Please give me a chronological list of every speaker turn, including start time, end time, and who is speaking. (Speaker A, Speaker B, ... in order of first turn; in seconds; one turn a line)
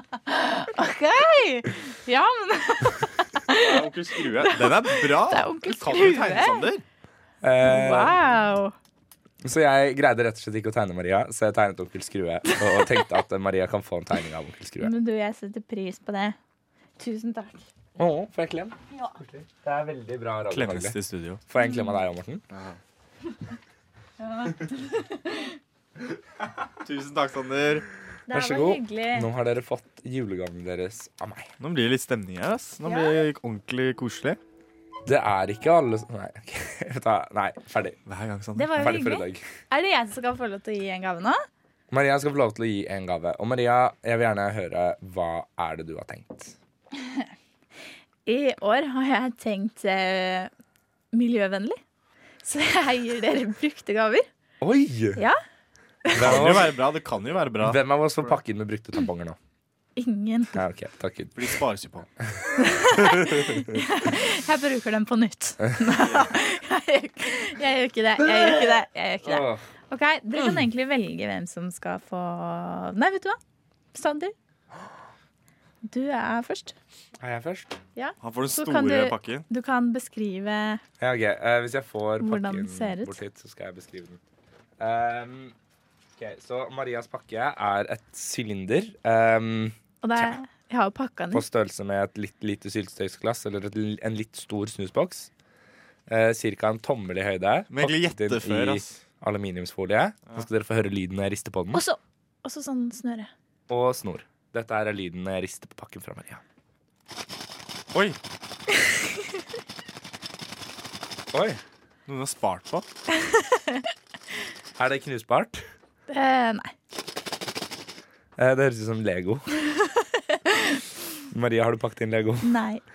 Speaker A: 0.3-6.7
Speaker B: 3.5-6.8
Speaker C: 7.4-8.2
Speaker A: 7.6-8.7
Speaker C: 9.4-14.9
Speaker A: 12.4-13.1
Speaker A: 14.8-16.4
Speaker A: 17.0-17.7
Speaker C: 18.0-20.9
Speaker A: 18.9-19.1
Speaker B: 20.5-21.4
Speaker C: 21.5-22.4
Speaker A: 21.6-22.0
Speaker B: 22.5-22.8
Speaker A: 24.2-25.6
Speaker B: 26.8-27.9
Speaker A: 28.3-29.3
Speaker C: 28.3-31.5
Speaker B: 31.6-34.4
Speaker A: 32.8-33.2
Speaker C: 35.0-38.0
Speaker B: 38.1-39.0
Speaker A: 38.5-41.4
Speaker C: 38.7-39.4
Speaker C: 41.9-46.5
Speaker A: 48.2-50.5
Speaker A: 51.1-51.8
Speaker A: 52.4-54.3
Speaker C: 54.6-55.2
Speaker C: 56.1-56.7
Speaker B: 56.1-58.3
Speaker C: 57.6-59.4
Speaker A: 60.0-60.6
Speaker C: 60.5-61.5
Speaker B: 61.4-62.1
Speaker A: 62.6-73.4
Speaker C: 63.0-63.7
Speaker C: 68.2-68.6
Speaker C: 69.2-69.6
Speaker A: 73.9-74.3
Speaker A: 75.8-76.7
Speaker C: 77.2-77.7
Speaker A: 78.0-80.8
Speaker B: 78.2-79.4
Speaker C: 81.0-84.2
Speaker A: 82.2-83.2
Speaker C: 84.8-85.5
Speaker C: 86.2-90.3
Speaker A: 90.0-91.5
Speaker C: 91.3-95.3
Speaker C: 96.1-101.8
Speaker B: 97.7-99.0
Speaker A: 101.7-103.3
Speaker C: 103.7-106.4
Speaker C: 111.3-111.6
Speaker B: 112.1-112.8
Speaker A: 113.2-113.8
Speaker C: 114.8-115.6
Speaker A: 116.1-116.7
Speaker C: 118.4-119.5
Speaker A: 119.7-120.8
Speaker C: 121.3-122.5
Speaker A: 122.4-122.8